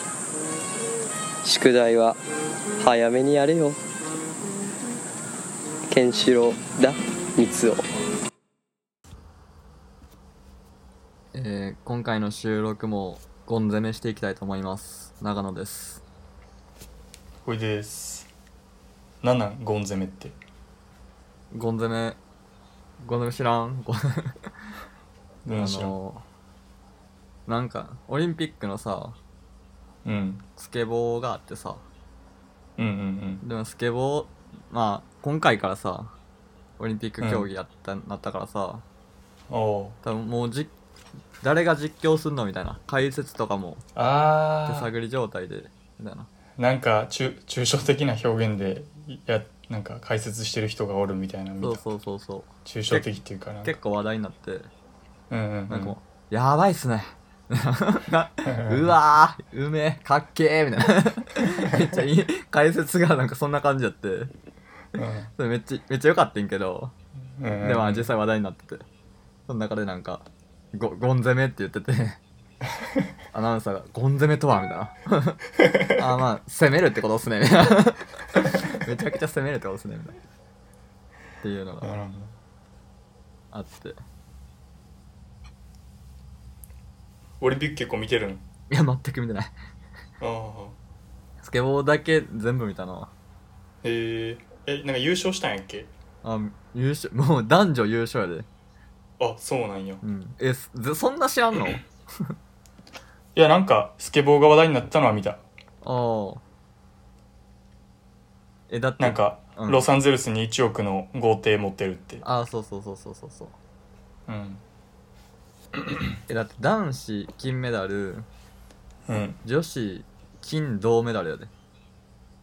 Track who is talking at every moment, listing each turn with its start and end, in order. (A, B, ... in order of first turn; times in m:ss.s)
0:01.4-0:02.2 A
0:02.8-0:03.8 A
0:05.9-0:07.8 A
0:11.3-0:16.0 B
0:17.4-0:18.3 C
0:19.2-0:20.4 C
0:21.5-0:22.2 B
0:23.0-0:24.5 B
0:25.4-0:25.9 C
0:25.5-0:26.2 B
0:27.5-0:29.2 B
0:30.0-0:30.4 C
0:30.6-0:31.8 B
0:32.8-0:33.4 C
0:33.4-0:36.1 B
0:36.8-0:38.8 B
0:37.2-0:37.5 C
0:39.5-0:40.0 C
0:40.0-0:40.7 B
0:41.4-0:43.8 B
0:44.0-0:44.9 C
0:44.7-0:46.3 B
0:46.6-0:51.8 C
0:51.6-0:53.1 B
0:52.6-0:53.8 C
0:53.6-0:54.7 B
0:55.3-0:56.0 C
0:55.7-1:04.3 B
0:58.4-0:58.9 C
1:01.6-1:02.0 C
1:04.9-1:05.3 C
1:05.3-1:06.9 B
1:07.4-1:08.1 C
1:07.6-1:08.8 B
1:09.5-1:12.2 B
1:12.8-1:13.0 C
1:13.3-1:15.4 B
1:15.6-1:15.9 C
1:15.9-1:20.2 B
1:21.4-1:21.9 B
1:21.8-1:22.3 C
1:23.5-1:24.0 B
1:27.4-1:28.4 C
1:28.7-1:29.5 B
1:30.2-1:30.8 C
1:31.4-1:33.1 B
1:33.8-1:35.9 C
1:36.2-1:38.5 B
1:39.2-1:40.0 C
1:40.0-1:42.3 B
1:43.3-1:45.4 C
1:45.8-1:46.4 B
1:48.7-1:49.8 B
1:49.0-1:52.2 C
1:52.2-1:53.6 B
1:54.3-1:54.6 C
1:56.3-1:58.3 B
1:59.1-1:59.4 C
1:59.4-2:01.5 B